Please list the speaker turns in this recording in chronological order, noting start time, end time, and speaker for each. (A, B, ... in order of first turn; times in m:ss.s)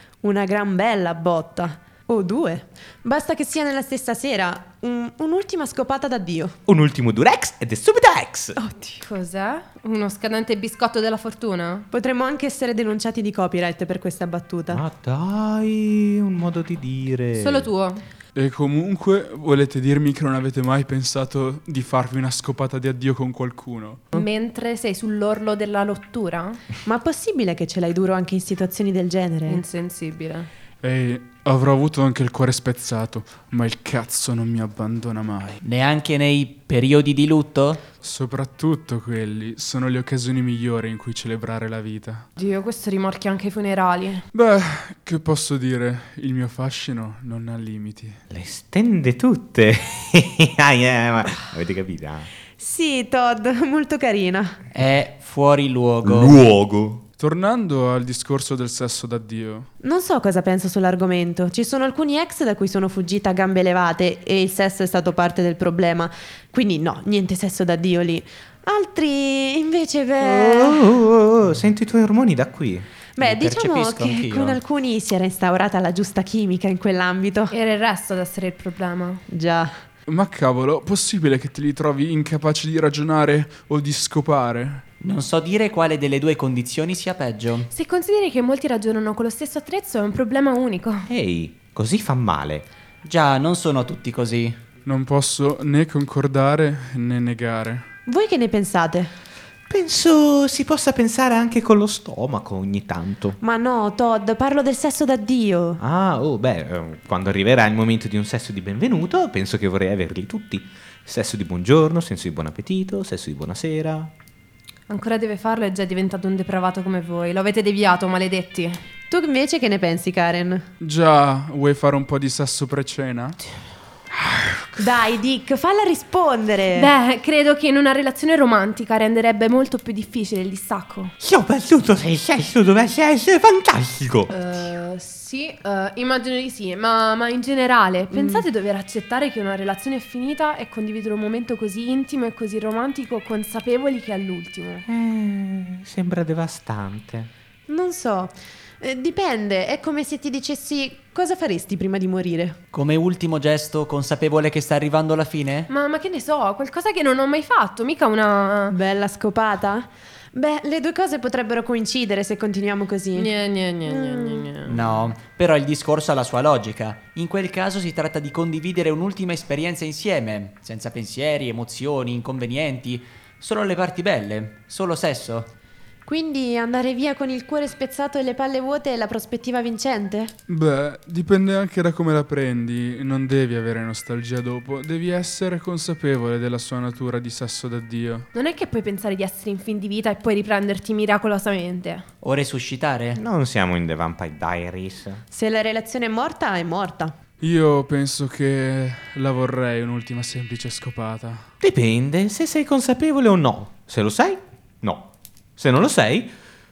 0:00.2-0:06.6 A
0:06.7-0:08.6 B
0:08.6-0:09.0 A
0:09.0-0:11.9 C
0:11.9-0:14.8 A
0:14.7-0:17.7 B
0:17.4-0:18.0 C
0:18.3-0:24.0 D
0:24.1-0:26.6 C
0:26.8-0:29.6 A
0:29.5-0:30.5 C
0:30.8-0:35.6 D
0:35.6-0:37.8 E
0:38.0-0:42.3 D
0:42.4-0:44.2 C
0:44.3-0:48.2 D
0:48.3-0:52.3 B
0:52.6-0:54.6 A
0:54.7-0:56.4 E
0:56.0-0:57.0 B
0:57.2-0:59.7 D
0:59.8-1:11.0 A
1:10.2-1:12.9 B
1:13.2-1:17.5 A
1:13.2-1:14.6 E
1:17.5-1:19.2 C
1:19.3-1:19.7 A
1:20.1-1:24.8 D
1:25.0-1:27.7 E
1:27.7-1:31.1 C
1:31.1-1:32.7 B
1:33.0-1:34.6 E
1:34.8-1:37.8 D
1:38.1-1:39.1 A
1:39.7-1:43.4 B
1:43.4-1:45.8 A
1:45.8-1:54.1 B
1:54.9-1:58.8 C
1:59.1-2:00.6 A
2:00.8-2:03.4 D
2:04.8-2:06.9 A
2:06.7-2:11.1 C
2:11.2-2:14.3 B
2:14.3-2:24.8 C
2:18.1-2:18.4 A
2:24.9-2:27.3 B
2:27.7-2:32.6 A
2:32.7-2:35.7 E
2:35.7-2:38.8 C
2:38.7-2:43.3 A
2:43.1-2:45.0 C
2:43.8-2:44.5 A
2:44.6-2:55.5 E
2:56.1-3:00.3 A
3:00.5-3:08.3 D
3:08.3-3:12.0 C
3:12.2-3:13.2 E
3:13.2-3:15.2 B
3:15.3-3:17.1 A
3:17.4-3:21.5 D
3:21.6-3:26.3 B